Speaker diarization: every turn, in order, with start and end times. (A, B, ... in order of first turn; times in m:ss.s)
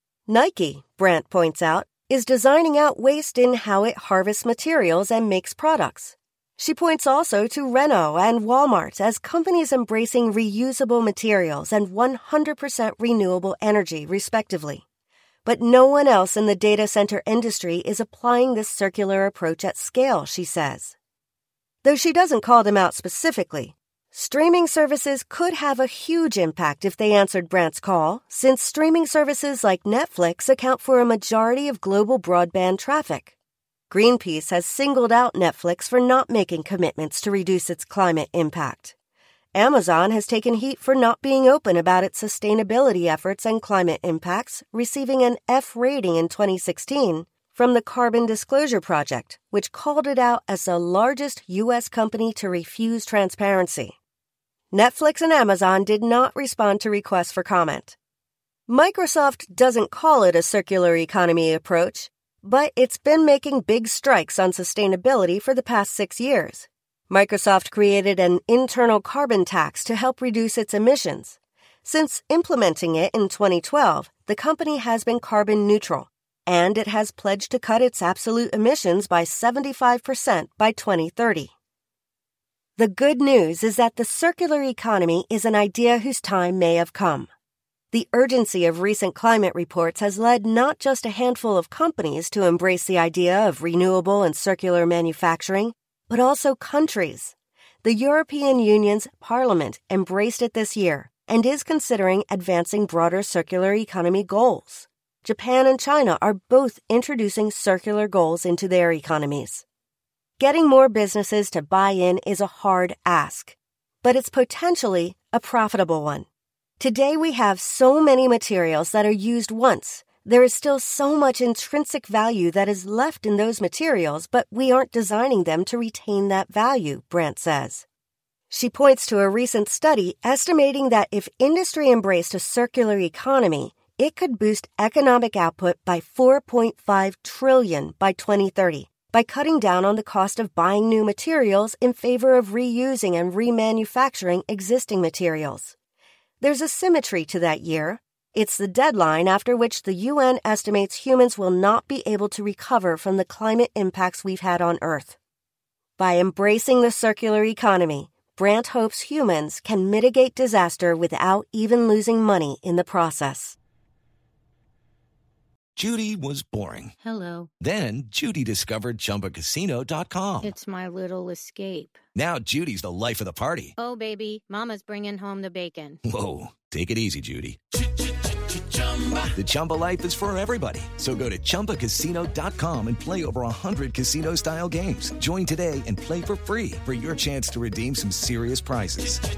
0:00.3-0:14.8 A
0:15.4-0:21.0 A
0:21.8-0:33.3 A
0:33.9-0:38.9 A
0:39.5-0:54.0 A
0:54.7-0:58.0 A
0:58.7-1:21.5 A
1:22.8-1:27.3 A
1:27.9-1:49.6 A
1:50.4-1:56.3 A
1:56.8-2:07.8 A
2:08.5-2:25.7 A
2:26.4-2:35.2 A
2:36.0-2:43.6 A
2:45.8-2:46.9 B
2:47.0-2:47.5 C
2:47.6-2:50.5 B
2:50.4-2:52.0 C
2:52.1-2:53.7 B
2:53.8-2:56.0 C
2:56.0-2:57.6 B
2:59.3-3:09.2 B